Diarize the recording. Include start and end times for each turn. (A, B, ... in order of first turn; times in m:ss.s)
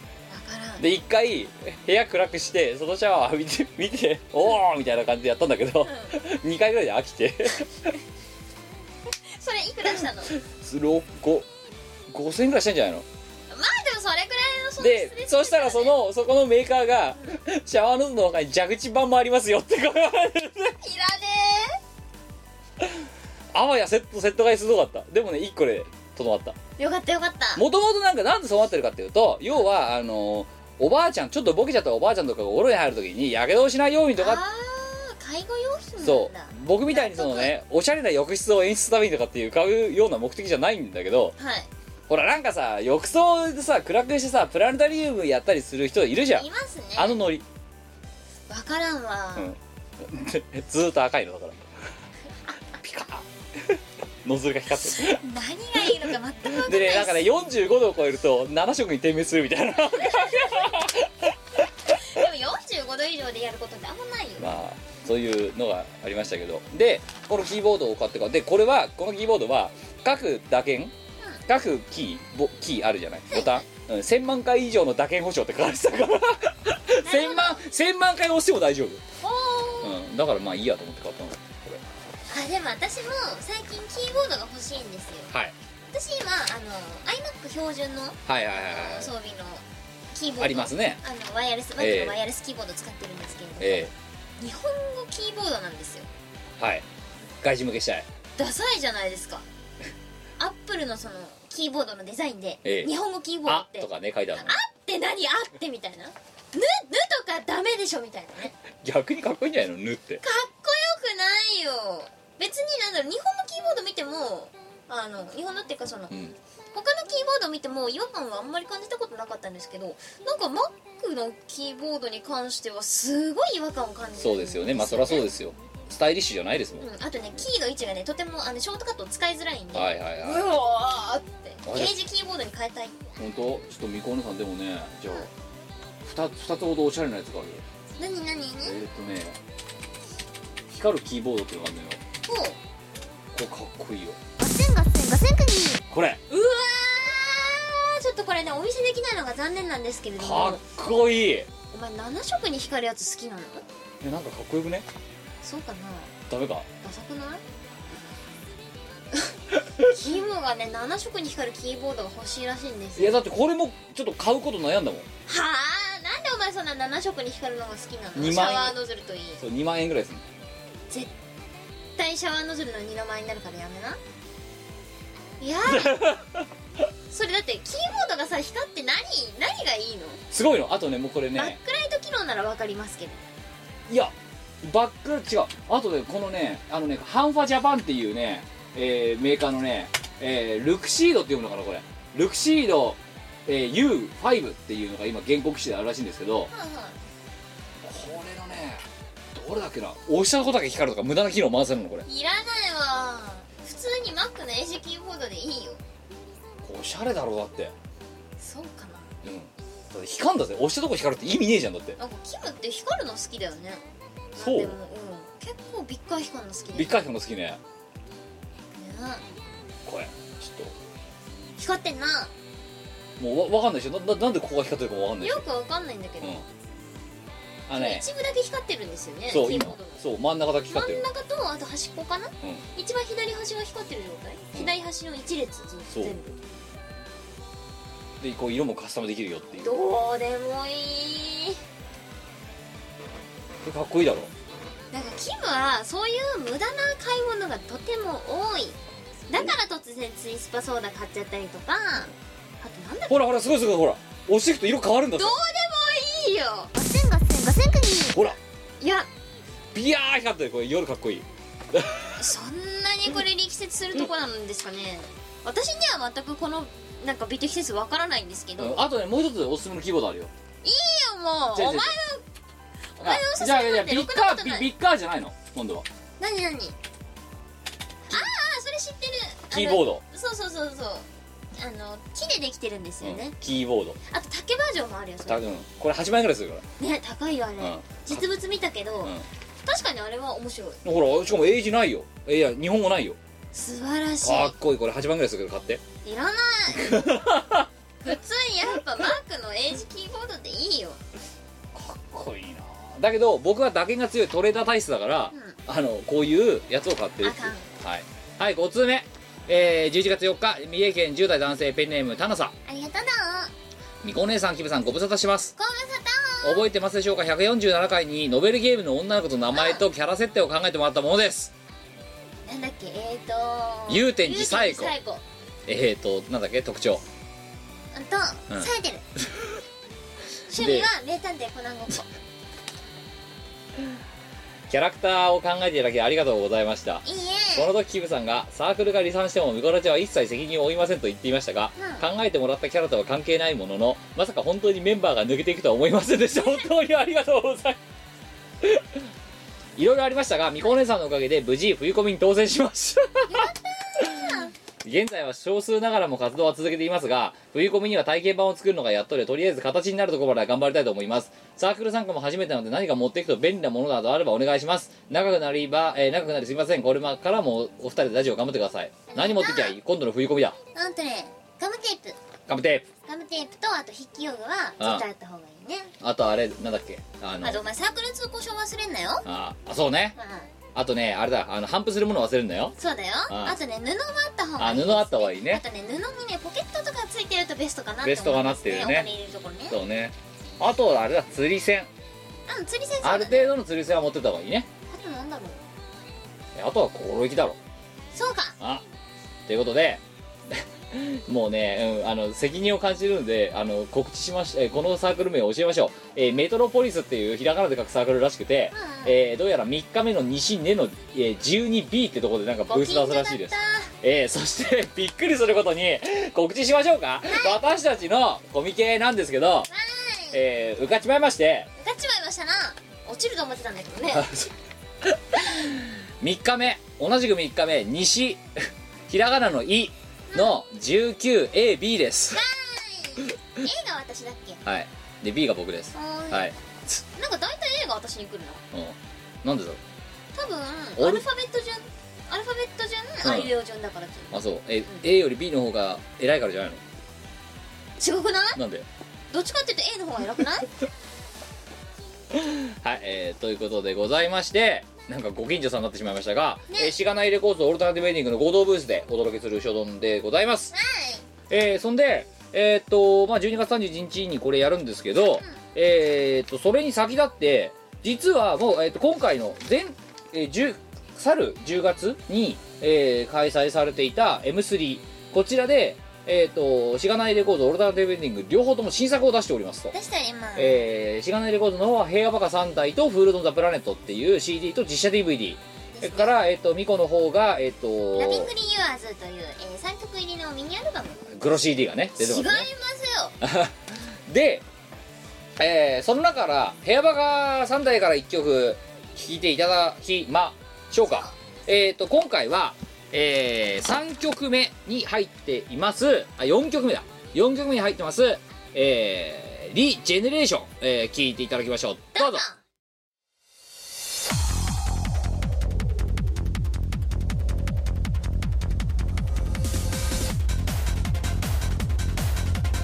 0:00.3-0:00.9 A
0:00.8-0:07.9 B
0:05.8-0:06.2 A
0:09.3-0:10.3 A
0:10.4-0:11.5 B
0:12.1-0:13.0 B
0:13.5-0:16.0 A
0:14.8-0:20.8 B
0:20.8-0:21.8 A
0:23.5-0:26.6 B
0:26.8-0:27.6 A
0:27.6-0:34.4 B
0:34.2-0:37.5 A
0:36.0-0:41.4 B
0:41.4-0:41.7 A
0:42.1-0:46.5 B
0:46.3-0:47.2 A
0:47.0-0:47.4 B
0:48.5-0:49.5 A
0:49.4-0:51.7 B
0:52.8-0:55.2 B
0:54.9-0:57.3 A
0:56.5-1:01.4 B
0:59.9-1:00.8 A
1:01.9-1:04.5 A
1:04.4-1:10.9 B
1:11.5-1:19.0 B
1:13.3-1:13.7 A
1:17.0-1:17.6 A
1:19.2-1:20.0 A
1:19.8-1:21.8 B
1:22.3-1:25.3 A
1:25.9-1:36.1 A
1:28.3-1:29.1 B
1:30.4-1:31.0 B
1:31.8-1:32.2 B
1:33.6-1:33.9 B
1:36.6-1:36.8 B
1:37.4-1:38.1 B
1:38.4-1:39.4 A
1:40.4-1:48.6 A
1:42.6-1:42.9 B
1:43.5-1:44.6 B
1:48.8-1:50.2 B
1:50.2-1:56.1 A
1:56.1-1:56.4 B
1:56.7-2:05.3 A
2:04.2-2:06.8 B
2:06.8-2:13.0 A
2:09.7-2:10.4 B
2:11.7-2:11.9 B
2:13.2-2:15.3 B
2:16.0-2:17.6 B
2:18.0-2:18.8 A
2:18.6-2:19.4 B
2:20.7-2:22.0 B
2:22.3-2:22.6 A
2:23.3-2:24.2 B
2:24.4-2:25.8 C
2:25.9-2:26.2 B
2:26.3-2:30.6 A
2:30.2-2:31.5 B
2:31.7-2:33.6 A
2:34.0-2:34.9 B
2:35.4-2:36.2 A
2:36.3-2:36.7 B
2:36.8-2:37.4 A
2:39.1-2:43.2 A
2:43.0-2:45.1 B
2:45.3-2:49.4 A
2:48.2-2:48.8 B
2:49.4-2:50.2 B
2:52.0-2:54.0 A
2:55.4-2:56.1 A
2:55.7-2:56.5 B
2:57.1-3:00.2 A
3:00.3-3:01.6 B
3:01.4-3:03.2 A
3:03.9-3:16.5 B
3:16.5-3:17.0 A
3:17.8-3:22.1 B
3:22.1-3:25.8 A
3:26.6-3:27.7 B
3:28.4-3:29.1 A
3:29.2-3:32.0 B
3:32.0-3:33.8 A
3:34.4-3:37.0 A
3:34.4-3:34.8 B
3:36.7-3:37.6 B
3:38.7-3:39.2 A
3:39.8-3:40.7 B
3:41.6-3:42.3 A
3:43.2-3:45.4 B
3:45.2-3:46.4 A
3:47.7-3:48.0 B
3:47.7-3:50.0 A
3:49.3-3:51.0 B
3:50.7-3:56.4 A
3:55.9-3:56.2 B
3:58.2-3:59.7 B
3:59.6-4:01.6 A
4:03.6-4:04.3 B
4:04.9-4:08.8 A
4:09.3-4:13.3 A
4:13.1-4:15.4 B
4:15.2-4:16.7 A
4:16.7-4:18.2 C
4:18.8-4:19.1 A
4:19.7-4:22.2 B
4:22.2-4:28.8 A
4:28.6-4:30.3 B
4:30.6-4:32.2 A
4:31.6-4:32.0 B
4:33.0-4:34.7 A
4:33.0-4:35.9 B
4:36.2-4:36.8 A
4:38.1-4:43.4 A
4:39.5-4:40.0 B
4:43.0-4:44.0 B
4:44.1-4:45.5 A
4:45.3-4:46.6 B
4:46.8-4:50.8 A
4:47.6-4:48.2 B
4:50.8-4:53.2 B
4:53.5-4:54.6 A
4:54.2-4:55.8 B
4:56.0-4:57.1 A
4:56.8-4:57.7 B
4:58.0-5:01.0 A
5:01.7-5:12.5 B
5:05.3-5:05.6 A
5:07.2-5:07.7 A
5:12.7-5:13.5 A
5:14.0-5:15.5 B
5:15.6-5:16.6 A
5:16.4-5:21.5 B
5:19.5-5:19.8 A
5:22.4-5:25.2 A
5:23.9-5:24.9 B
5:25.7-5:27.0 B
5:27.9-5:29.0 A
5:30.5-5:32.1 A
5:30.5-5:30.9 B
5:34.7-5:47.8 B
5:37.0-5:37.7 A
5:41.8-5:42.0 A
5:46.4-5:46.7 A
5:48.6-5:49.0 B
5:49.8-5:53.5 B
5:53.3-5:54.5 A
5:54.8-6:10.6 B
6:09.1-6:09.8 A
6:10.8-6:12.2 A
6:12.5-6:12.9 B
6:13.1-6:15.9 A
6:16.0-6:17.6 B
6:17.4-6:19.2 A
6:19.2-6:20.2 B
6:20.2-6:20.5 A
6:20.8-6:22.7 B
6:22.8-6:29.8 A
6:23.3-6:23.6 B
6:24.6-6:25.6 B
6:28.0-6:29.1 B
6:29.7-6:31.9 B
6:32.5-6:33.6 A
6:33.0-6:34.7 B
6:34.9-6:35.6 A
6:36.6-6:37.6 B
6:38.1-6:38.6 A
6:39.5-6:59.7 B
6:48.7-6:49.2 A
6:52.7-6:53.9 A
6:57.3-6:57.6 A
6:59.7-7:00.4 A
7:00.3-7:01.7 B
7:01.8-7:04.3 A
7:04.1-7:04.5 B
7:05.0-7:08.4 B
7:09.1-7:12.4 B
7:12.3-7:14.6 A
7:14.6-7:17.0 B
7:15.9-7:16.5 A
7:17.2-7:18.6 A
7:18.7-7:19.8 B
7:20.4-7:25.0 A
7:21.0-7:21.2 B
7:23.2-7:23.5 B
7:24.3-7:26.8 B
7:28.0-7:28.6 A
7:28.6-7:28.9 B
7:29.3-7:30.7 A
7:32.3-7:40.7 B
7:36.7-7:37.0 A
7:40.7-7:41.3 A
7:41.5-7:59.9 B
7:59.9-8:00.8 A
8:00.6-8:08.5 B
8:05.9-8:06.3 A
8:08.2-8:11.3 A
8:11.3-8:12.7 B
8:12.2-8:13.4 A
8:13.4-8:14.6 B
8:15.6-8:32.4 B
8:21.0-8:21.4 A
8:32.2-8:32.6 A